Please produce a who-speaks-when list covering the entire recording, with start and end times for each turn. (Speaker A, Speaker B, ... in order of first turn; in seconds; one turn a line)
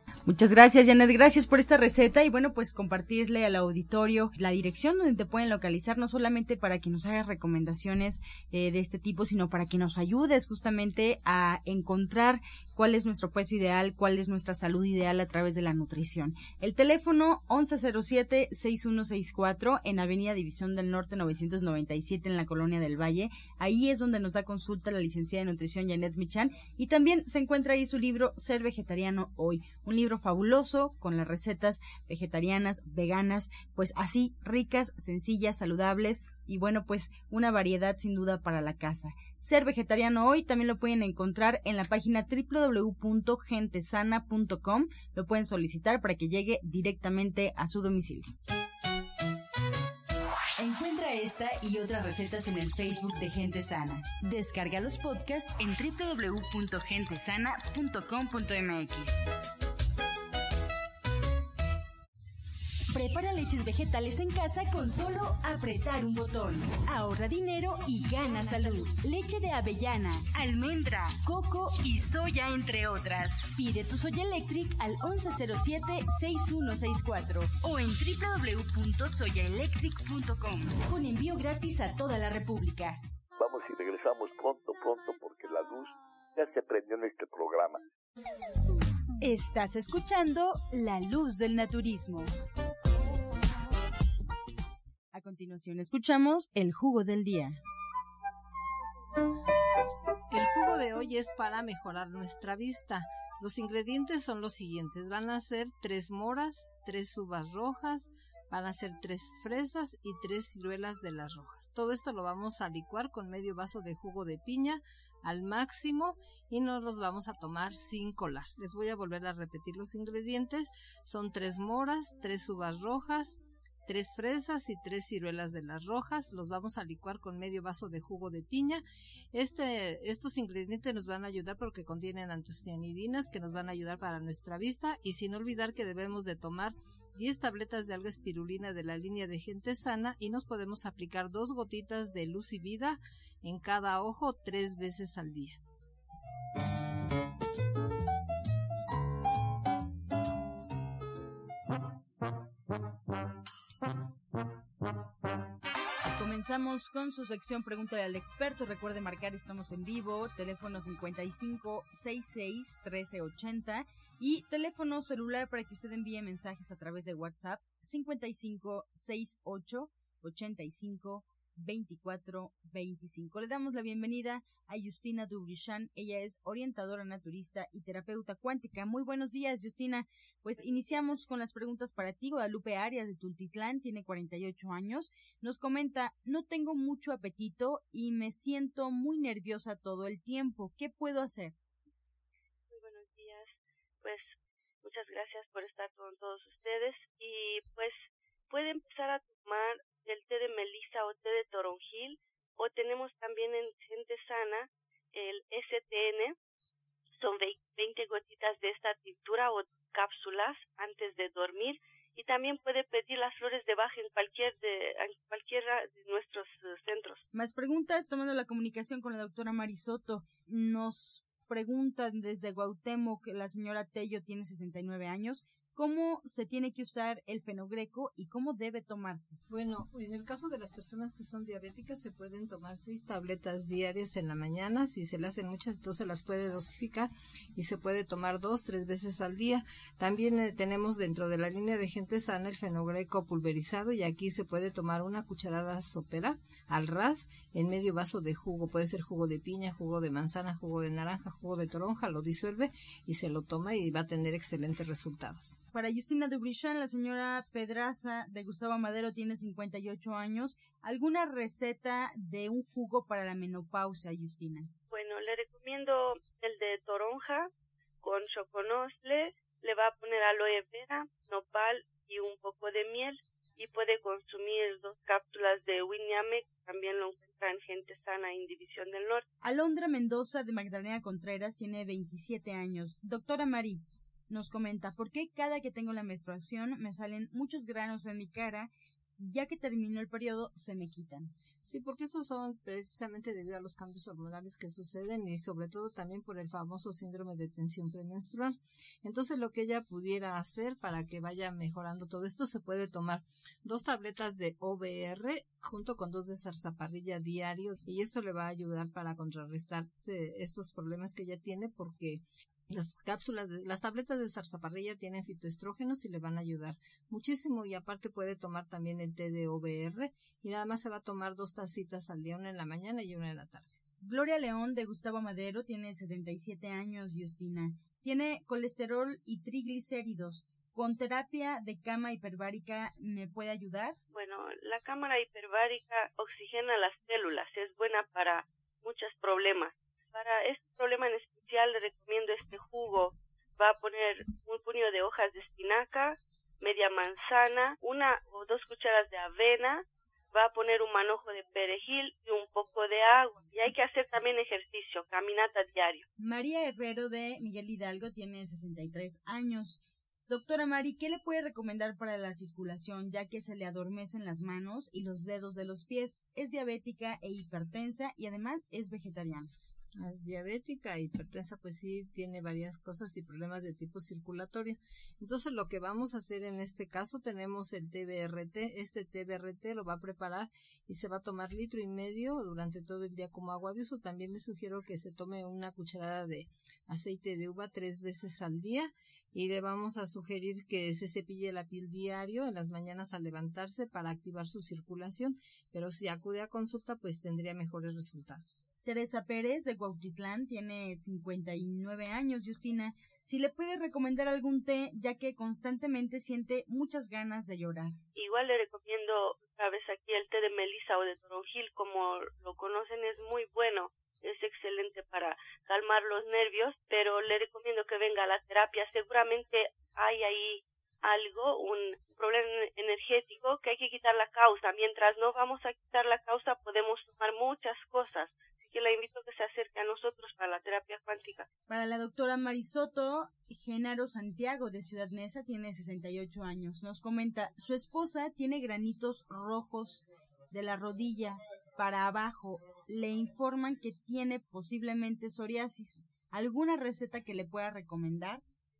Speaker A: 0.3-48.3
Speaker A: 50.6-59.2
Speaker A: 62.9-83.0
Speaker B: 83.4-87.9
Speaker A: 89.2-92.3
Speaker A: 95.1-97.6
Speaker C: 100.3-145.6
Speaker A: 156.2-191.6
Speaker D: 180.6-181.3
Speaker D: 192.7-206.4
Speaker D: 207.2-217.2
Speaker A: 217.3-229.4
Speaker C: 229.5-255.6
Speaker A: 255.7-264.7
Speaker D: 264.9-267.5
Speaker D: 268.0-279.3
Speaker A: 279.4-291.3
Speaker C: 291.6-323.8
Speaker A: 324.0-334.0
Speaker D: 334.1-356.1
Speaker A: 356.2-369.5
Speaker C: 370.0-398.6
Speaker A: 398.9-408.0
Speaker D: 408.1-431.5
Speaker A: 431.7-448.4